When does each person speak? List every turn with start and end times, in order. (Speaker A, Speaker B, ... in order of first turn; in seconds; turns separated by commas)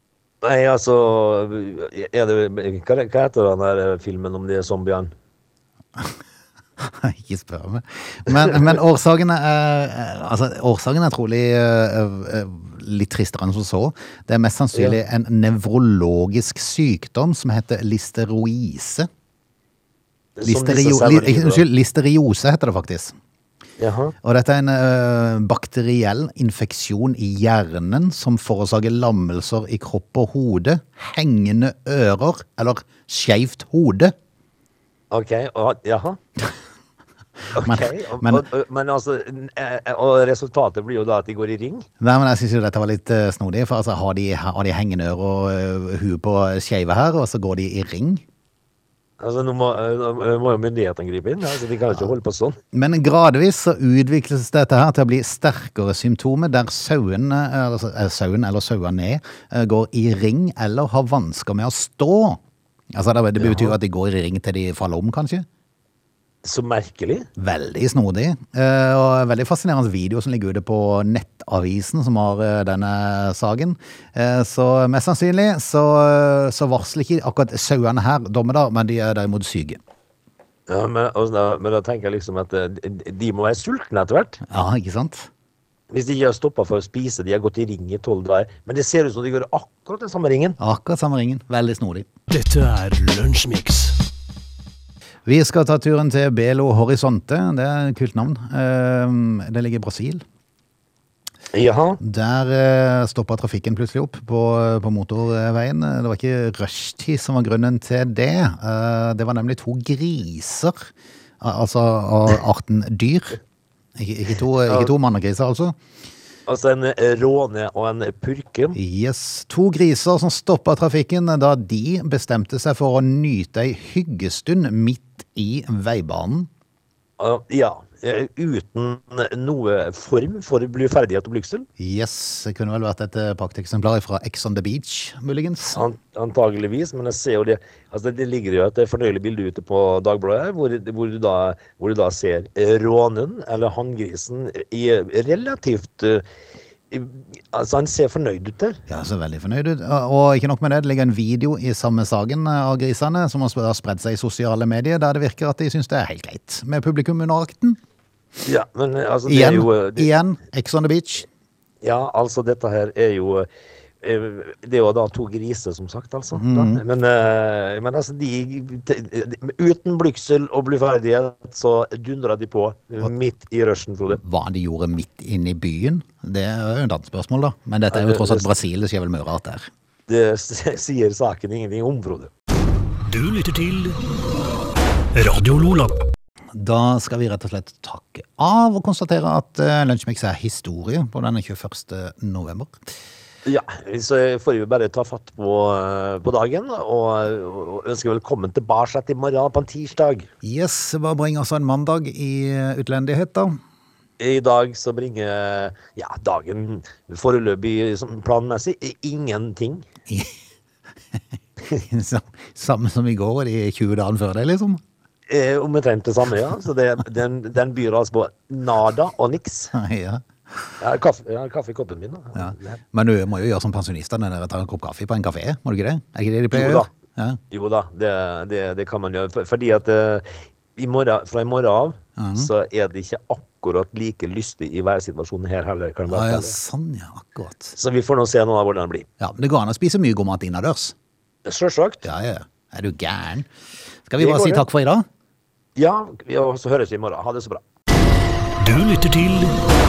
Speaker A: 0.4-5.1, Speaker B: 6.8-19.1, Speaker A: 20.4-21.6, Speaker B: 20.4-23.2, Speaker A: 23.8-24.1, Speaker B: 24.2-34.1, Speaker A: 35.1-36.2, Speaker A: 37.5-41.9, Speaker B: 37.5-38.4, Speaker B: 42.0-48.2, Speaker A: 49.2-52.6, Speaker B: 52.7-62.4, Speaker B: 62.9-65.5, Speaker A: 63.4-63.8, Speaker A: 66.4-67.3, Speaker B: 67.4-79.8, Speaker A: 80.7-84.4, Speaker B: 84.5-85.3, Speaker A: 85.9-90.6, Speaker B: 90.6-92.1, Speaker C: 92.3-94.0, Speaker B: 95.3-100.2, Speaker A: 101.5-102.0, Speaker B: 102.0-110.9, Speaker B: 111.4-113.4, Speaker B: 114.0-115.8, Speaker A: 114.7-114.9, Speaker A: 116.5-118.8, Speaker B: 118.8-126.5, Speaker A: 127.2-131.7, Speaker B: 131.8-135.8, Speaker A: 135.8-146.2, Speaker A: 146.9-148.8, Speaker B: 148.9-157.8, Speaker A: 158.4-160.1, Speaker B: 159.3-161.3, Speaker A: 161.8-163.5, Speaker A: 164.0-174.2, Speaker B: 166.4-166.8, Speaker B: 174.2-179.7, Speaker A: 177.9-178.5, Speaker A: 180.1-182.3, Speaker C: 183.1-184.0, Speaker C: 185.1-186.0, Speaker B: 186.5-192.8, Speaker A: 193.4-200.3, Speaker B: 200.4-203.6, Speaker A: 204.2-209.9, Speaker B: 210.1-210.3, Speaker B: 211.7-214.8, Speaker A: 215.3-219.7, Speaker B: 219.7-220.7, Speaker A: 220.8-222.8, Speaker B: 222.3-227.4, Speaker A: 226.5-226.9, Speaker A: 227.5-236.6, Speaker B: 232.2-232.5, Speaker B: 236.1-237.8, Speaker A: 237.8-239.1, Speaker B: 239.2-240.9, Speaker A: 241.4-242.0, Speaker B: 242.0-243.5, Speaker B: 244.1-245.1, Speaker A: 244.2-244.7, Speaker A: 245.8-247.6, Speaker C: 248.6-249.6